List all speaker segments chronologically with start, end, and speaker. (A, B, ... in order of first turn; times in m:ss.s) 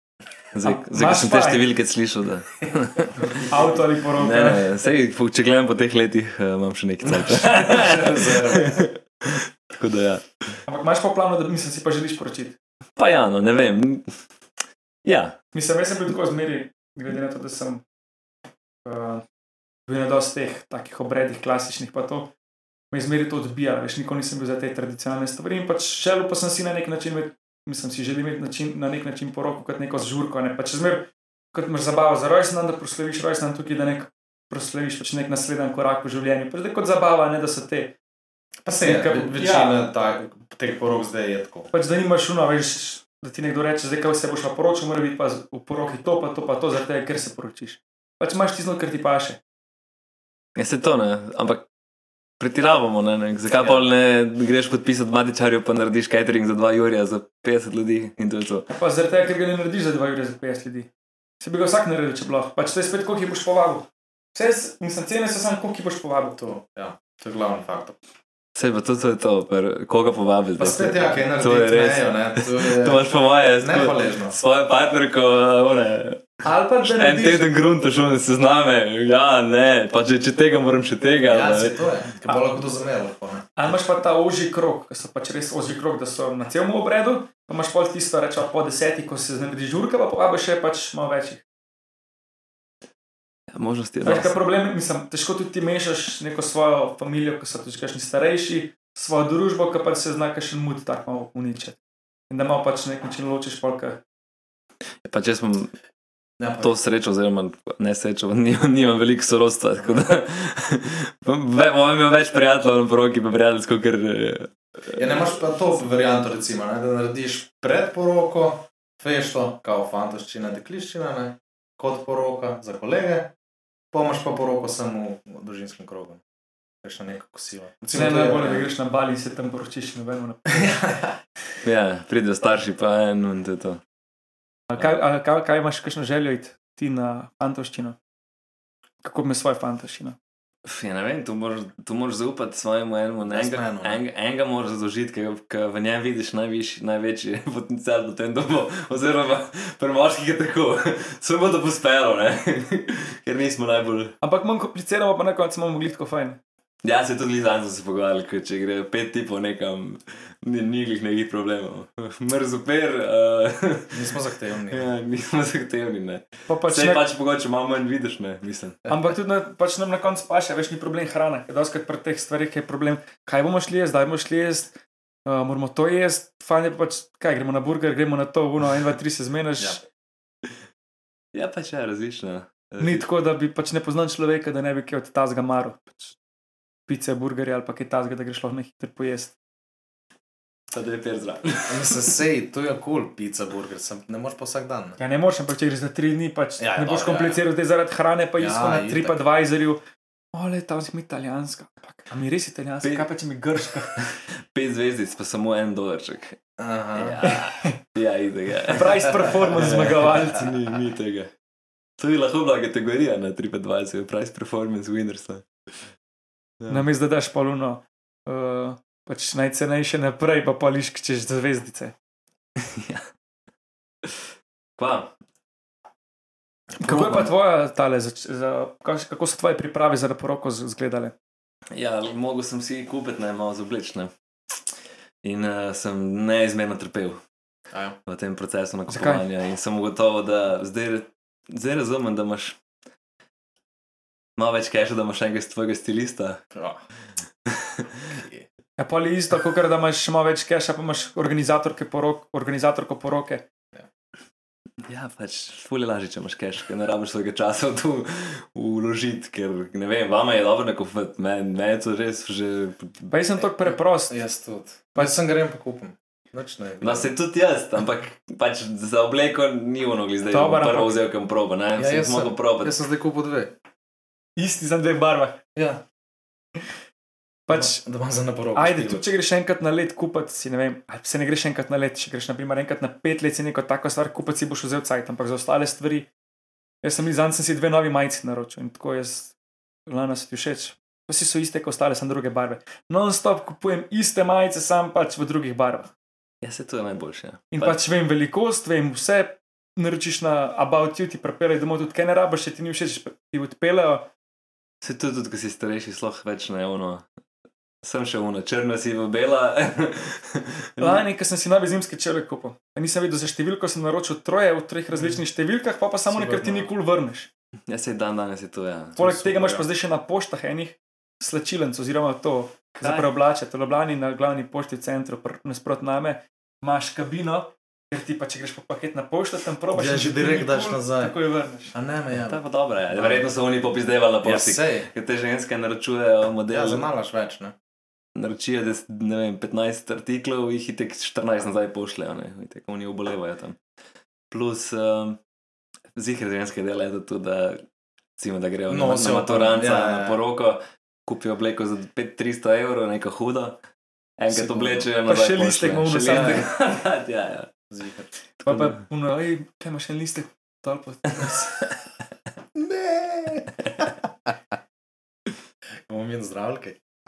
0:00.5-0:03.4 A
0:00.6-0:01.6 B
0:03.4-0:04.6 B
0:04.2-0:10.6 A
0:07.0-0:08.8 C
0:10.7-0:12.6 B
0:13.0-0:14.1 A
0:15.0-0:15.4 A
0:15.5-0:17.8 B
0:18.8-0:19.2 B
0:19.9-0:22.3 B
0:22.9-0:38.0 B
0:38.6-0:41.7 C
0:38.8-0:39.8 B
0:41.7-0:49.4 B
0:50.6-0:51.7 A
0:52.4-0:58.7 A
0:58.7-1:00.9 B
1:01.4-1:06.4 B
1:06.4-1:08.0 C
1:08.6-1:21.8 A
1:10.6-1:13.0 C
1:13.6-1:14.4 C
1:16.4-1:17.5 B
1:21.3-1:23.5 C
1:23.6-1:31.4 B
1:33.5-1:34.3 A
1:34.0-1:41.8 B
1:42.3-1:44.0 B
1:45.0-1:45.7 A
1:46.4-1:46.7 C
1:46.6-1:55.2 A
1:54.9-2:03.3 C
2:03.9-2:06.2 C
2:06.8-2:08.7 C
2:07.9-2:10.8 B
2:10.5-2:11.2 C
2:11.6-2:13.8 A
2:14.7-2:18.0 B
2:19.0-2:20.2 B
2:20.6-2:34.1 A
2:23.2-2:24.0 C
2:34.2-2:36.4 B
2:36.8-2:44.2 A
2:43.9-2:44.9 C
2:44.7-2:48.8 A
2:46.5-2:47.0 B
2:48.9-2:59.8 B
3:01.3-3:03.0 A
3:02.8-3:05.8 B
3:06.9-3:09.3 B
3:10.7-3:12.0 A
3:11.6-3:15.0 C
3:15.0-3:19.8 B
3:16.6-3:17.4 C
3:18.4-3:19.2 C
3:20.3-3:24.0 B
3:24.0-3:26.4 A
3:26.6-3:27.2 C
3:26.9-3:31.3 A
3:27.2-3:27.8 B
3:28.7-3:30.5 B
3:32.0-3:35.4 A
3:36.6-3:36.8 A
3:36.7-3:41.9 B
3:42.6-3:43.1 A
3:44.8-3:45.1 A
3:46.7-3:47.3 C
3:46.8-3:51.1 B
3:51.7-3:54.1 A
3:55.2-3:57.2 A
3:57.7-3:58.0 C
3:58.0-4:02.6 A
3:58.9-3:59.2 B
4:04.4-4:06.4 A
4:06.5-4:06.8 C
4:07.4-4:08.0 A
4:08.1-4:08.4 C
4:08.8-4:13.4 B
4:14.9-4:23.1 A
4:23.1-4:24.2 B
4:24.1-4:27.1 C
4:26.8-4:32.8 A
4:30.3-4:31.0 B
4:31.8-4:33.5 C
4:34.4-4:35.4 B
4:35.5-4:35.8 C
4:37.5-4:37.8 B
4:37.5-4:39.0 C
4:38.5-4:46.1 B
4:46.8-4:49.3 B
4:49.9-4:55.9 B
4:56.4-4:57.8 A
4:57.5-5:04.1 B
5:04.8-5:07.0 A
5:07.8-5:11.0 A
5:10.8-5:17.3 B
5:16.1-5:16.7 C
5:17.7-5:19.0 A
5:19.0-5:19.6 C
5:19.0-5:31.7 B
5:22.8-5:23.1 A
5:29.7-5:31.2 C
5:31.7-5:32.4 C
5:32.1-5:36.8 A
5:32.9-5:33.3 C
5:34.2-5:34.9 C
5:36.5-5:37.5 C
5:38.1-5:43.6 A
5:44.3-5:45.2 A
5:45.9-5:47.6 A
5:48.2-5:53.6 A
5:48.7-5:50.2 C
5:54.2-5:57.5 A
5:54.3-5:54.9 C
5:55.0-5:56.4 B
5:56.1-5:56.4 C
5:57.7-5:58.1 C
5:58.4-6:01.7 B
5:58.4-5:58.8 A
6:02.5-6:04.3 C
6:05.9-6:06.8 C